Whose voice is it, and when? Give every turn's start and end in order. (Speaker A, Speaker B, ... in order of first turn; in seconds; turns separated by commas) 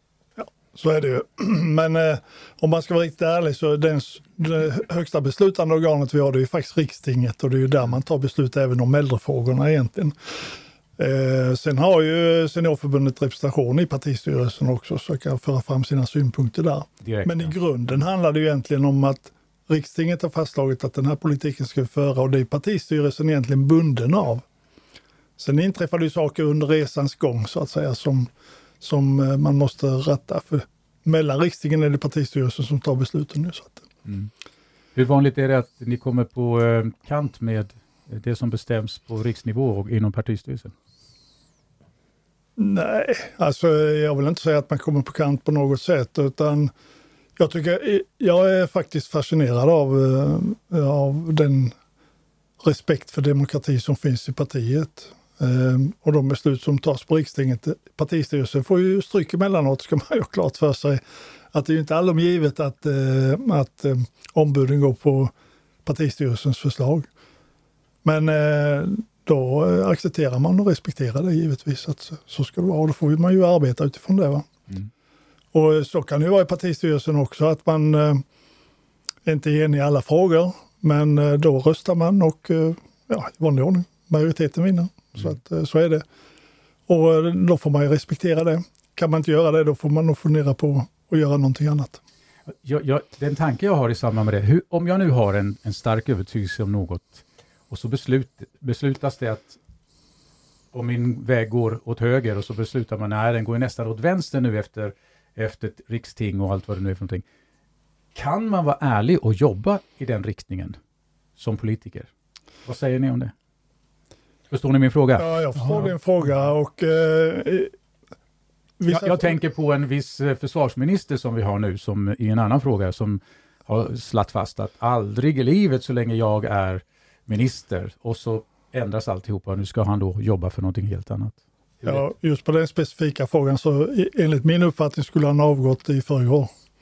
Speaker A: 0.4-24.4, Speaker B: 17.0-17.5, Speaker A: 25.4-28.3, Speaker A: 28.8-33.8, Speaker B: 34.9-40.7, Speaker A: 42.6-46.7, Speaker A: 47.4-51.7, Speaker A: 52.6-61.0, Speaker A: 61.5-65.3, Speaker A: 65.8-67.1, Speaker A: 68.0-74.5, Speaker A: 75.5-78.2, Speaker A: 79.2-86.0, Speaker A: 86.9-92.0, Speaker B: 92.6-99.6, Speaker B: 100.7-107.2, Speaker B: 108.1-110.8, Speaker B: 111.4-112.1, Speaker B: 112.6-113.3, Speaker B: 114.5-115.2, Speaker A: 115.2-117.7, Speaker A: 118.8-119.3, Speaker B: 118.9-132.0, Speaker A: 131.8-136.5